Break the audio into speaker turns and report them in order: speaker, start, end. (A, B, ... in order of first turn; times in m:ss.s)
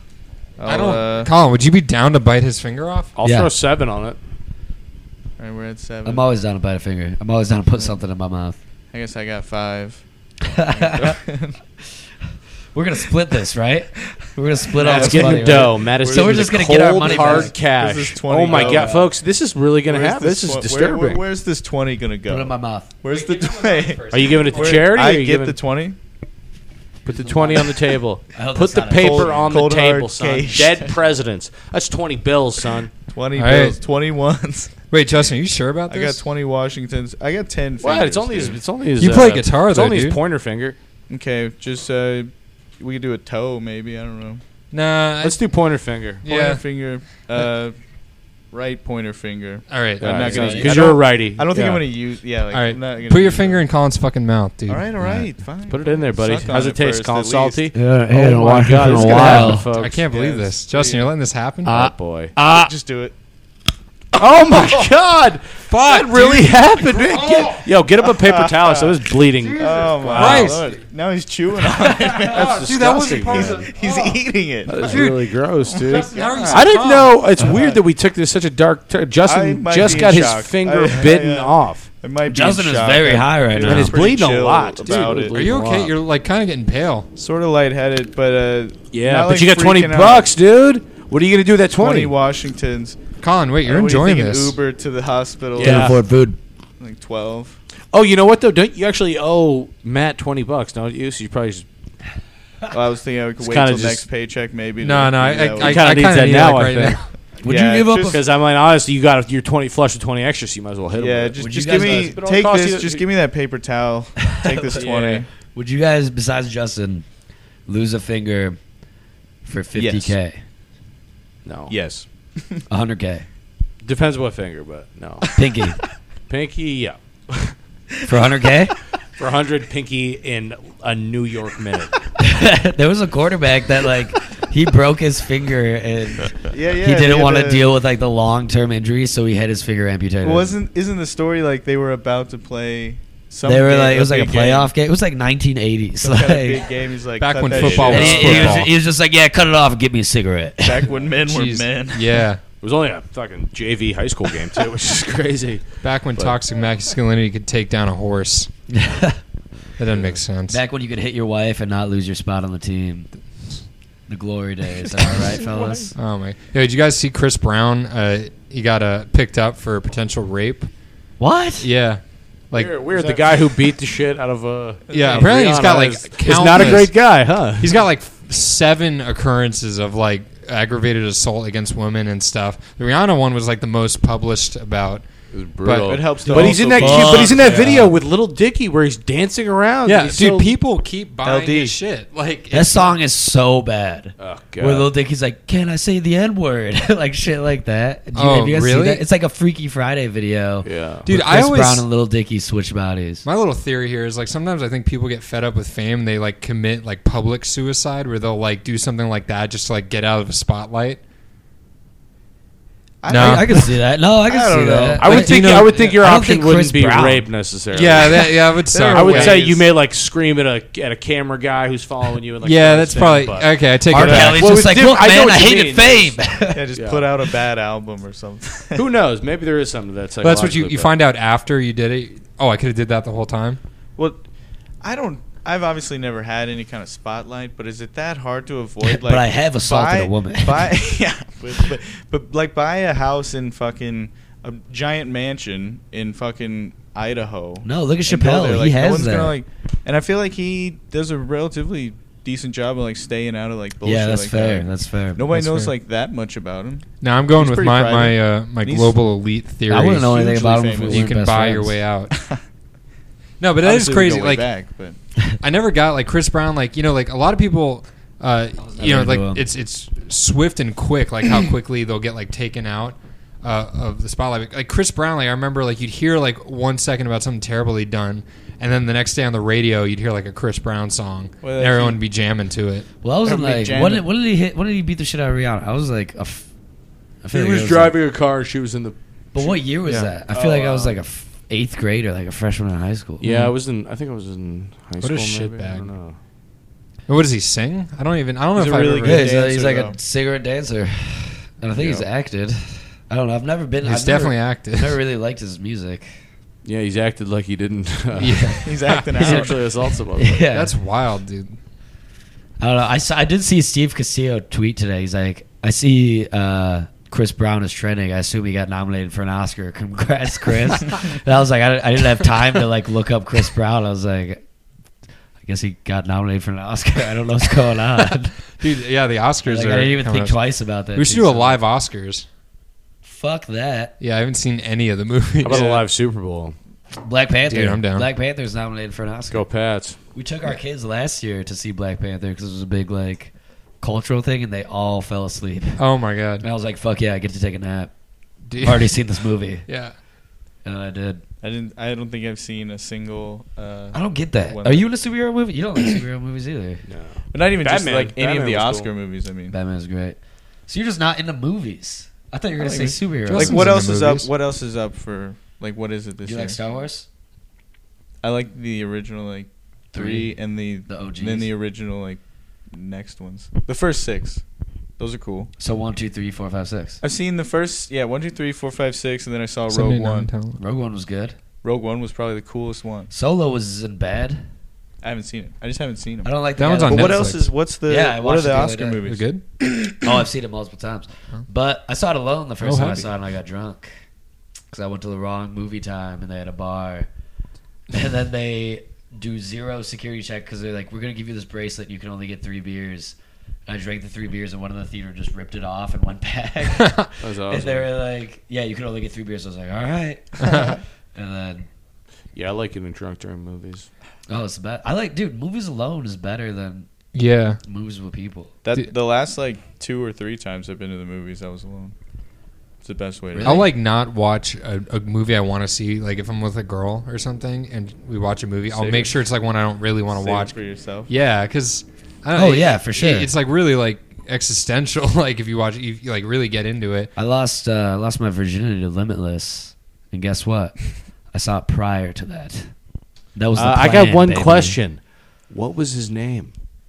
0:00.6-0:01.3 A
0:00.6-0:03.1 B
0:03.2-0:04.2 C
0:03.2-0:03.5 D
0:05.4-0:06.3 A
0:06.0-0:08.6 D
0:08.9-0:10.0 A
0:10.5-0:11.2 D
0:10.7-0:11.6 A
0:12.7-0:17.6 D
0:14.0-0:19.1 A
0:14.8-0:21.2 C
0:18.5-0:19.0 D
0:19.9-0:26.0 A
0:22.3-0:22.9 D
0:23.1-0:24.9 B
0:24.1-0:25.6 C
0:27.0-0:32.9 C
0:27.1-0:27.7 A
0:28.3-0:29.6 D
0:28.9-0:30.9 A
0:33.1-0:34.8 A
0:33.4-0:33.8 B
0:34.9-0:36.2 B
0:35.9-0:38.6 A
0:37.8-0:40.8 C
0:39.0-0:40.2 B
0:41.1-0:44.4 A
0:44.7-0:45.4 B
0:45.2-0:46.2 C
0:46.2-0:46.6 B
0:46.2-0:47.8 A
0:48.5-0:53.6 A
0:49.7-0:50.5 B
0:50.0-0:51.8 C
0:50.2-0:50.9 D
0:52.5-0:54.9 B
0:54.7-0:57.7 A
0:55.0-0:55.3 D
0:55.7-1:00.0 C
0:57.7-0:59.7 D
0:58.9-0:59.5 A
0:59.1-1:01.7 B
1:00.1-1:01.1 A
1:01.6-1:02.4 C
1:01.7-1:02.7 D
1:02.4-1:03.2 A
1:04.1-1:10.6 C
1:04.5-1:04.9 A
1:05.7-1:07.7 B
1:08.2-1:09.0 A
1:09.6-1:15.2 A
1:10.1-1:10.8 B
1:12.2-1:14.2 B
1:12.3-1:13.7 C
1:14.7-1:21.9 C
1:14.7-1:15.2 B
1:15.7-1:16.7 A
1:15.8-1:17.3 B
1:17.4-1:17.8 A
1:19.2-1:25.4 A
1:22.3-1:24.0 D
1:23.6-1:25.9 C
1:25.3-1:27.1 B
1:27.2-1:30.3 A
1:28.9-1:32.2 C
1:31.8-1:33.0 A
1:33.2-1:34.6 B
1:33.6-1:36.0 A
1:35.6-1:36.0 C
1:35.6-1:36.4 D
1:36.8-1:37.6 A
1:37.9-1:41.7 C
1:42.7-1:45.9 A
1:43.4-1:44.0 C
1:44.8-1:47.1 B
1:45.6-1:47.0 C
1:47.4-1:48.2 D
1:47.4-1:48.2 A
1:47.9-1:53.1 C
1:51.0-1:55.3 A
1:51.4-1:52.2 D
1:54.2-1:54.9 D
1:54.8-1:55.2 C
1:55.5-1:57.1 D
1:57.7-1:58.6 D
1:59.4-2:00.4 D
1:59.7-2:00.2 A
2:01.4-2:01.9 C
2:01.7-2:02.6 A
2:02.7-2:03.3 D
2:03.8-2:05.4 C
2:05.4-2:05.8 D
2:06.3-2:07.6 C
2:08.1-2:08.8 D
2:09.2-2:12.0 C
2:12.2-2:20.6 D
2:16.5-2:17.7 A
2:20.2-2:24.7 A
2:23.4-2:26.7 D
2:26.0-2:28.7 A
2:27.2-2:28.7 B
2:27.5-2:28.4 C
2:27.6-2:30.9 D
2:30.6-2:32.2 A
2:31.3-2:32.4 B
2:32.6-2:36.4 C
2:35.8-2:38.5 B
2:38.7-2:39.2 D
2:39.8-2:40.6 B
2:40.5-2:43.1 D
2:44.1-2:46.0 D
2:45.4-2:45.9 A
2:46.0-2:50.7 B
2:51.2-2:51.7 D
2:51.6-2:52.8 B
2:52.5-2:57.8 C
2:52.9-2:53.4 A
2:54.9-2:55.4 A
2:54.9-3:05.1 B
3:05.3-3:10.5 C
3:05.6-3:06.0 B
3:05.8-3:07.9 A
3:06.3-3:07.9 D
3:09.9-3:13.0 B
3:11.2-3:11.8 A
3:12.5-3:23.2 D
3:14.2-3:14.9 C
3:18.1-3:19.0 B
3:20.6-3:21.1 C
3:21.1-3:21.9 B
3:23.2-3:31.0 B
3:33.0-3:35.2 A
3:33.1-3:33.7 B
3:33.1-3:37.3 D
3:35.0-3:47.1 C
3:35.0-3:35.9 B
3:37.7-3:39.4 B
3:38.7-3:39.7 A
3:42.4-3:44.5 B
3:43.9-3:46.7 D
3:44.0-3:44.4 A
3:46.5-3:48.8 A
3:48.8-3:50.9 C
3:50.2-3:53.6 B
3:54.0-3:54.2 A
3:54.8-4:19.0 A
3:58.8-4:00.8 D
4:07.6-4:09.4 D
4:13.8-4:15.4 D
4:15.3-4:15.7 B
4:17.0-4:20.2 B
4:19.7-4:21.8 D
4:19.8-4:21.1 A
4:20.9-4:22.1 B
4:22.1-4:22.4 A
4:23.4-4:24.5 B
4:23.6-4:25.0 A
4:25.4-4:42.9 B
4:28.6-4:29.4 D
4:41.4-4:42.0 A
4:43.0-4:46.5 D
4:43.2-4:44.1 A
4:47.2-4:48.0 D
4:47.3-4:49.0 C
4:49.3-4:53.2 D
4:50.3-4:51.0 C
4:53.2-4:56.2 C
4:53.2-4:53.6 B
4:55.0-4:55.9 B
4:57.1-4:59.3 B
4:58.6-5:00.0 A
4:59.0-5:06.1 D
5:01.8-5:02.1 C
5:03.8-5:05.0 B
5:06.6-5:10.4 C
5:08.2-5:09.0 B
5:08.6-5:09.7 A
5:09.2-5:09.5 D
5:10.2-5:10.7 D
5:10.5-5:11.6 B
5:12.6-5:24.4 D
5:25.4-5:28.6 D
5:28.6-5:30.4 B
5:29.5-5:31.6 D
5:30.9-5:32.3 B
5:33.0-5:34.0 D
5:34.0-5:35.8 B
5:35.4-5:36.6 C
5:37.0-5:39.4 D
5:37.5-5:38.1 B
5:39.3-5:40.0 C
5:40.1-5:45.8 D
5:45.8-5:46.5 B
5:46.4-5:47.9 D
5:48.5-5:49.0 B
5:48.6-5:49.7 D
5:49.7-5:50.0 B
5:50.6-5:51.2 D
5:51.4-5:54.9 A
5:53.9-5:56.8 D
5:56.9-5:58.9 C
5:57.3-5:59.6 A
5:59.5-6:03.9 D
6:02.6-6:06.6 A
6:03.3-6:04.3 B
6:06.2-6:07.1 D
6:08.2-6:14.4 A
6:09.9-6:11.5 D
6:15.0-6:15.5 A
6:15.6-6:17.0 D
6:17.0-6:20.3 A
6:19.7-6:20.6 B
6:20.6-6:21.4 D
6:21.6-6:23.1 A
6:23.1-6:24.4 D
6:25.0-6:29.3 A
6:26.2-6:29.0 D
6:26.6-6:27.4 B
6:29.1-6:29.4 B
6:29.8-6:33.9 D
6:32.6-6:33.1 B
6:34.7-6:37.1 D
6:37.9-6:43.2 D
6:43.7-6:51.7 D
6:46.8-6:47.1 B
6:47.2-6:47.9 C
6:52.4-6:53.9 C
6:54.3-6:56.9 D
6:57.1-6:57.6 B
6:57.6-6:58.6 D
6:58.6-7:01.9 A
7:02.8-7:03.6 A
7:03.4-7:03.7 D
7:03.4-7:10.5 B
7:08.7-7:09.1 A
7:10.1-7:11.1 A
7:11.1-7:17.1 B
7:12.4-7:13.3 D
7:17.2-7:22.7 D
7:23.4-7:24.8 D
7:23.6-7:26.5 C